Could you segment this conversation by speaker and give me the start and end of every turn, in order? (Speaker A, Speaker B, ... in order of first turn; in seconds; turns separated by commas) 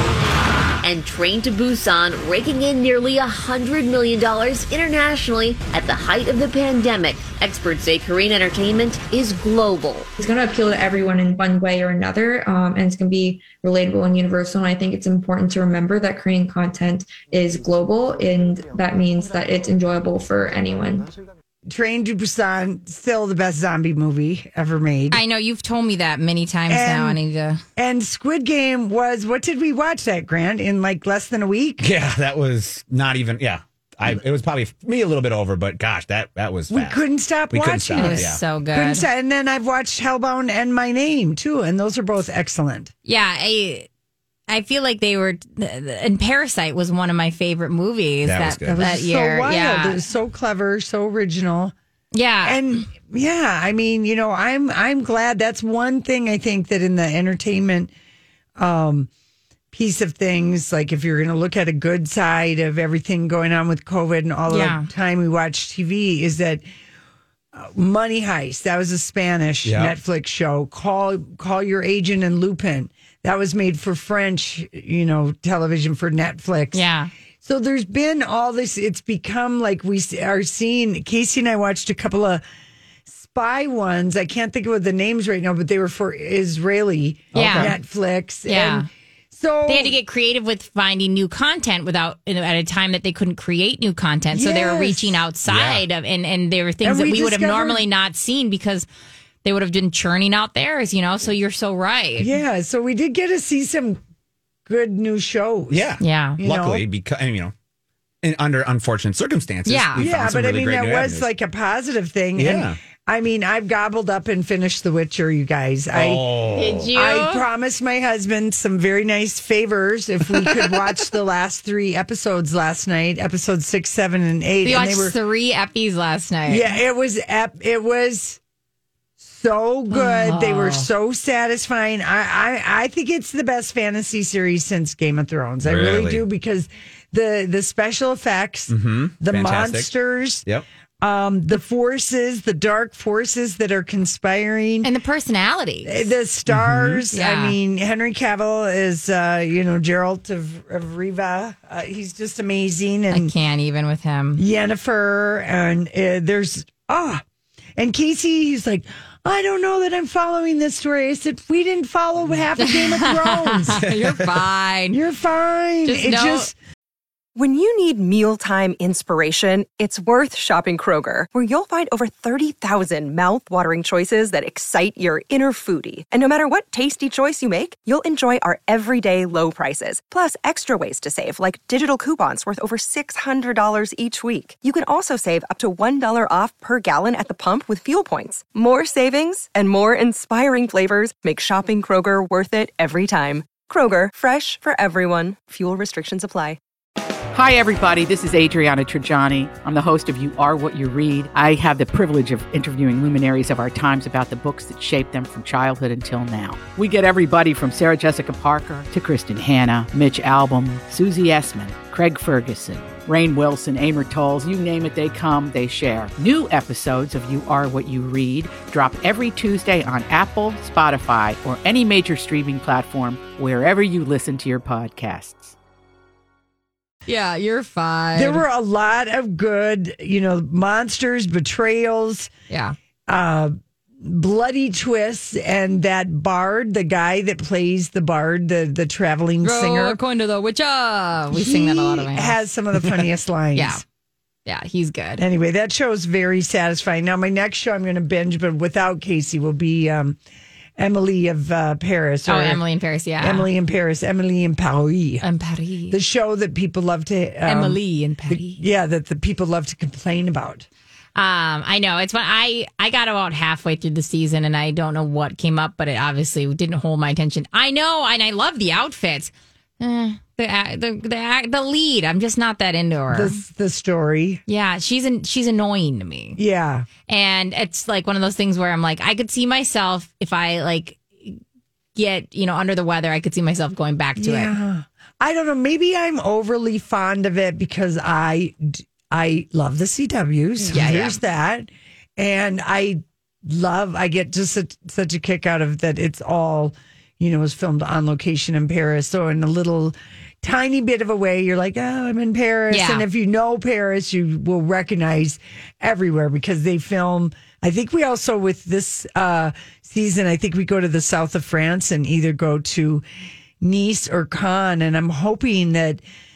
Speaker A: 0.8-10.1, Speaker B: 10.2-21.1, Speaker C: 21.7-25.2, Speaker D: 25.1-27.6, Speaker C: 26.7-27.2, Speaker C: 27.8-31.8, Speaker E: 31.8-38.4, Speaker C: 36.7-42.9, Speaker D: 38.0-39.0, Speaker D: 43.1-43.9, Speaker D: 44.5-50.0, Speaker E: 48.2-48.8, Speaker C: 48.7-51.7, Speaker D: 52.1-52.9, Speaker C: 52.4-57.9, Speaker C: 58.6-59.1, Speaker C: 59.7-66.6, Speaker D: 64.5-64.9, Speaker C: 67.5-76.8, Speaker E: 69.7-69.9, Speaker D: 76.7-77.1, Speaker C: 77.4-82.4, Speaker C: 83.1-90.0, Speaker E: 87.3-87.8, Speaker D: 87.3-87.8, Speaker D: 88.5-88.9, Speaker D: 89.7-98.9, Speaker C: 94.3-95.2, Speaker E: 95.5-95.8, Speaker C: 96.8-97.8, Speaker D: 99.4-102.3, Speaker C: 102.2-104.0, Speaker C: 104.7-106.8, Speaker E: 105.7-107.5, Speaker D: 106.0-106.4, Speaker E: 108.2-111.3, Speaker D: 109.7-110.0, Speaker C: 110.0-125.1, Speaker E: 112.4-112.8, Speaker E: 115.9-116.9, Speaker D: 116.5-117.4, Speaker D: 124.6-126.7, Speaker C: 126.5-128.4, Speaker C: 129.2-140.5, Speaker D: 129.9-130.9, Speaker E: 135.6-136.2, Speaker E: 138.7-139.9, Speaker C: 141.0-144.9, Speaker D: 144.8-146.1, Speaker C: 145.9-153.3, Speaker E: 146.5-147.0, Speaker D: 147.1-147.6, Speaker D: 153.1-154.4, Speaker C: 154.4-157.2, Speaker C: 157.8-163.8, Speaker D: 162.6-165.0, Speaker E: 163.8-164.2, Speaker C: 164.9-166.5, Speaker D: 165.9-166.5, Speaker F: 167.4-196.6, Speaker G: 197.3-225.6, Speaker D: 227.1-228.4, Speaker C: 228.2-232.3, Speaker D: 232.5-232.8, Speaker C: 233.1-240.0, Speaker D: 239.4-242.4, Speaker C: 241.3-243.8, Speaker D: 243.6-243.8, Speaker D: 244.5-245.2, Speaker C: 245.2-250.2, Speaker C: 250.8-252.6, Speaker D: 252.3-253.5, Speaker C: 253.2-255.2, Speaker D: 255.2-256.0, Speaker C: 255.9-260.7, Speaker D: 257.5-258.6, Speaker D: 261.2-273.4, Speaker C: 273.1-274.4, Speaker D: 274.5-276.4, Speaker C: 276.4-276.9, Speaker D: 277.1-281.4, Speaker D: 282.0-284.5, Speaker C: 284.2-313.0, Speaker D: 290.7-291.2, Speaker D: 302.7-303.0, Speaker C: 313.6-316.0